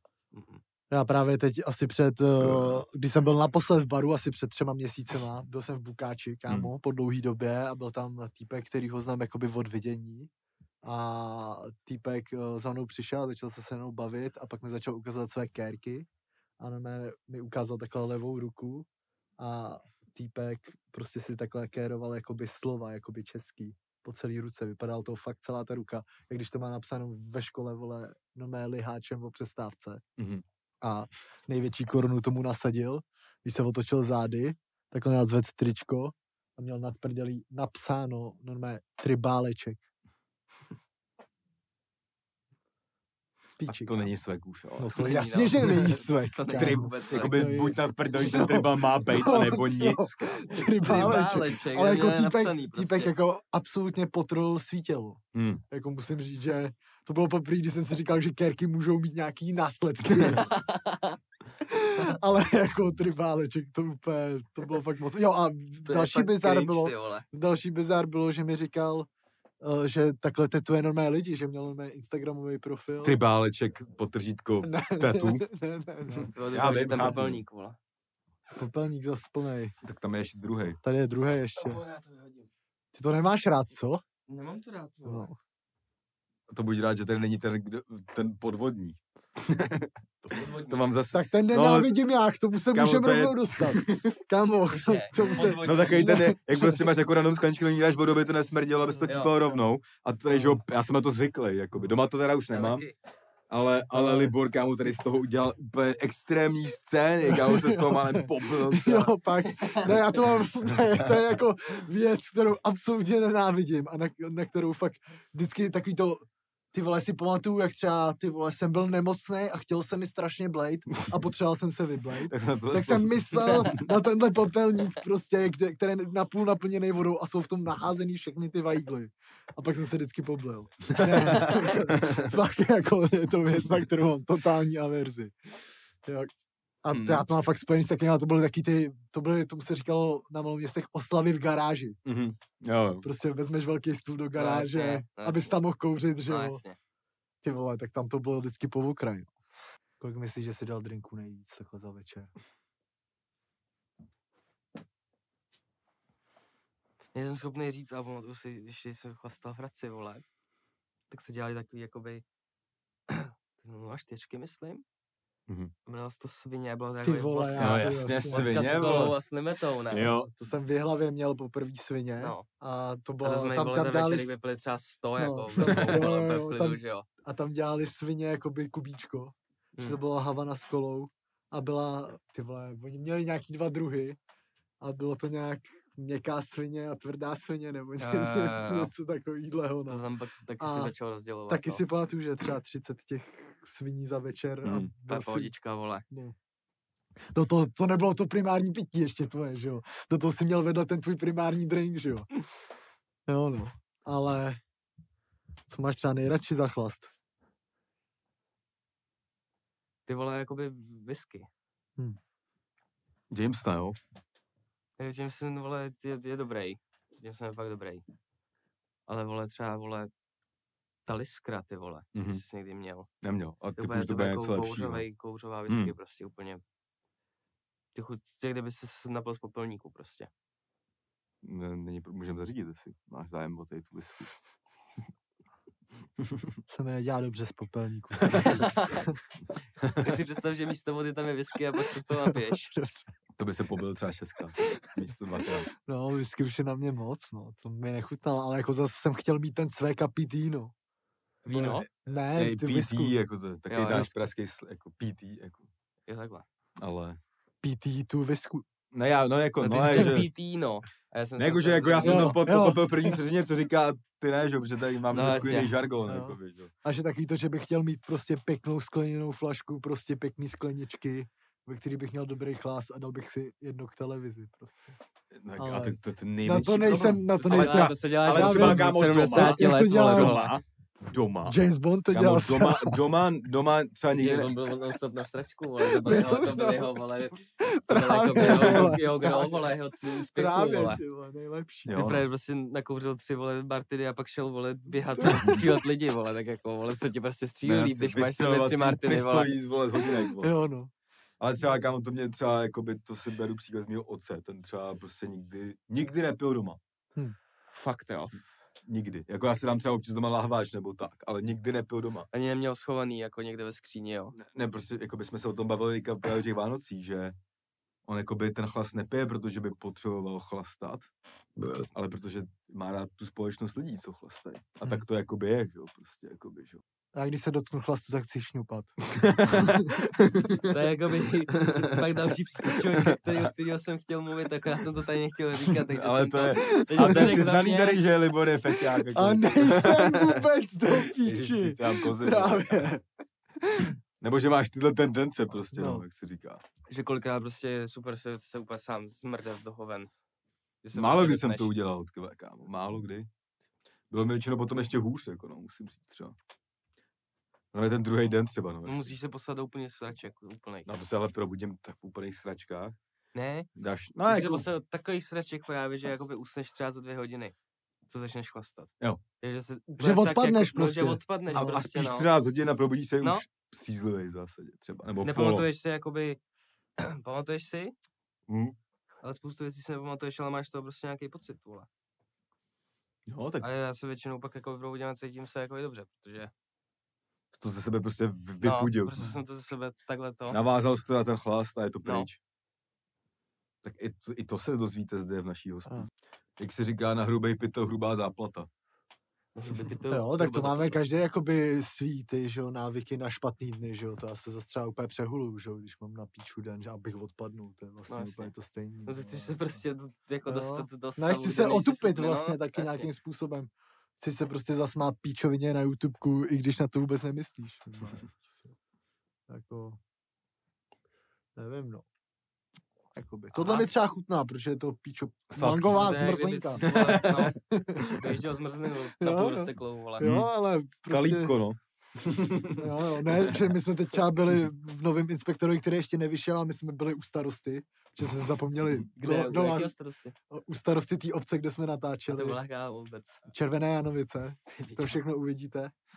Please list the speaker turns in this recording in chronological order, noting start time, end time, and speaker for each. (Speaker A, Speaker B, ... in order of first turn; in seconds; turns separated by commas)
Speaker A: 0.3-0.6, Speaker B: 0.9-10.3, Speaker C: 2.4-2.8, Speaker B: 10.8-16.1, Speaker B: 16.6-18.9, Speaker B: 19.4-30.0, Speaker C: 30.2-30.4, Speaker B: 30.8-39.8, Speaker B: 43.6-44.1, Speaker C: 43.7-45.0, Speaker B: 44.8-60.5, Speaker A: 44.9-47.4, Speaker C: 46.6-51.2, Speaker A: 50.8-53.1, Speaker C: 55.3-55.6, Speaker A: 60.4-61.2, Speaker B: 61.6-69.1, Speaker A: 65.9-67.2, Speaker B: 69.6-73.2, Speaker C: 73.0-75.5, Speaker B: 74.6-76.3, Speaker C: 76.2-77.4, Speaker A: 76.3-77.8, Speaker B: 76.9-77.3, Speaker B: 78.5-79.7, Speaker C: 79.8-80.8, Speaker B: 80.8-81.8, Speaker A: 81.6-82.5, Speaker B: 82.9-84.0, Speaker A: 84.3-85.3, Speaker B: 85.0-85.3, Speaker C: 86.5-92.0, Speaker A: 90.3-90.9, Speaker B: 91.1-96.9, Speaker C: 92.7-94.1, Speaker A: 94.7-96.2, Speaker C: 95.5-102.9, Speaker A: 99.1-99.3, Speaker B: 100.3-100.6, Speaker A: 102.5-102.9, Speaker C: 103.5-109.1, Speaker B: 103.9-104.3, Speaker B: 107.2-135.3, Speaker A: 109.5-110.1, Speaker C: 122.3-123.8, Speaker C: 130.9-132.3, Speaker A: 131.3-131.7, Speaker B: 136.0-136.3, Speaker B: 136.8-142.0, Speaker A: 136.9-137.3, Speaker C: 142.1-143.1, Speaker B: 143.0-146.6, Speaker A: 144.3-145.6, Speaker A: 146.3-146.8, Speaker B: 147.4-149.3, Speaker B: 150.0-152.3, Speaker A: 157.1-160.2, Speaker A: 161.1-162.2, Speaker A: 163.1-164.8, Speaker A: 165.9-170.1, Speaker B: 167.0-169.1, Speaker C: 167.6-169.2, Speaker C: 169.9-170.3, Speaker B: 170.2-174.3, Speaker A: 172.2-172.5, Speaker A: 173.2-177.1, Speaker B: 175.2-184.2, Speaker C: 175.6-176.0, Speaker B: 184.8-190.0, Speaker A: 188.0-188.9, Speaker A: 189.9-191.8, Speaker B: 190.6-190.9, Speaker B: 191.5-195.5, Speaker C: 194.6-194.9, Speaker A: 195.1-196.0, Speaker B: 196.1-196.3, Speaker B: 197.3-202.3, Speaker B: 203.3-204.6, Speaker B: 205.7-207.1, Speaker A: 210.1-211.5, Speaker C: 213.3-214.0, Speaker A: 215.0-218.0, Speaker A: 219.1-220.1, Speaker A: 221.1-223.1, Speaker C: 222.2-222.4, Speaker C: 223.2-225.0, Speaker A: 223.8-226.6, Speaker C: 225.7-225.9, Speaker A: 227.9-230.3, Speaker C: 231.4-234.3, Speaker B: 236.7-239.2, Speaker A: 238.3-239.1, Speaker A: 240.0-242.7, Speaker B: 242.3-243.1, Speaker C: 243.4-245.7, Speaker B: 245.8-250.7, Speaker A: 251.4-251.9, Speaker C: 251.5-255.7, Speaker B: 252.1-253.2, Speaker A: 253.7-254.1, Speaker A: 256.1-256.4, Speaker C: 256.8-257.2, Speaker B: 257.6-258.6, Speaker C: 258.9-260.3, Speaker A: 259.6-262.4, Speaker B: 259.9-260.2, Speaker C: 261.4-266.7, Speaker B: 262.0-263.2, Speaker A: 265.1-265.7, Speaker B: 266.1-275.0, Speaker C: 275.3-281.6, Speaker B: 275.6-280.5, Speaker A: 276.9-280.5, Speaker B: 281.5-283.0, Speaker C: 282.1-284.6, Speaker A: 284.1-291.0, Speaker B: 285.8-287.1, Speaker B: 287.6-292.0, Speaker C: 288.4-289.0, Speaker C: 291.9-292.3, Speaker A: 291.9-299.6, Speaker B: 295.2-295.8, Speaker C: 295.3-295.6, Speaker C: 297.6-300.5, Speaker B: 300.4-300.9, Speaker C: 301.4-306.8, Speaker A: 307.7-308.4, Speaker C: 308.9-312.3, Speaker A: 312.3-314.4, Speaker C: 314.4-317.4, Speaker C: 318.1-321.1, Speaker C: 321.8-326.8, Speaker B: 327.1-329.9, Speaker C: 329.1-330.7, Speaker A: 330.7-338.0, Speaker C: 331.6-332.0, Speaker C: 335.8-340.4, Speaker B: 336.6-337.4, Speaker B: 338.9-343.0, Speaker C: 341.1-342.9, Speaker B: 343.6-344.0, Speaker C: 344.2-346.6, Speaker B: 345.7-346.1, Speaker A: 346.9-350.1, Speaker A: 350.8-351.7, Speaker C: 350.9-353.3, Speaker C: 354.1-356.4, Speaker C: 357.7-359.1, Speaker A: 358.9-360.9, Speaker C: 360.9-363.0, Speaker A: 363.3-363.7, Speaker C: 363.8-364.7, Speaker A: 364.2-367.6, Speaker A: 368.1-372.3, Speaker B: 370.0-371.8, Speaker C: 371.5-375.7, Speaker A: 375.2-376.4, Speaker A: 377.0-377.9, Speaker C: 378.5-378.8, Speaker A: 379.2-381.9, Speaker C: 383.3-383.7, Speaker A: 383.6-386.5, Speaker C: 387.5-389.2, Speaker A: 388.6-390.6, Speaker C: 390.5-392.4, Speaker C: 393.8-398.7, Speaker A: 399.6-401.0, Speaker B: 400.1-409.8, Speaker A: 408.1-408.5, Speaker A: 409.1-413.1, Speaker B: 410.5-418.7, Speaker B: 419.5-420.0, Speaker B: 421.6-422.1, Speaker B: 423.1-428.3, Speaker A: 423.5-423.9, Speaker C: 425.5-426.2, Speaker A: 425.9-430.3, Speaker C: 426.8-428.2, Speaker B: 429.2-431.6, Speaker C: 430.2-430.5, Speaker C: 431.1-433.6, Speaker B: 432.8-439.9, Speaker A: 439.2-440.4, Speaker B: 440.5-442.6, Speaker A: 442.3-443.4, Speaker B: 443.5-445.9, Speaker A: 444.7-445.2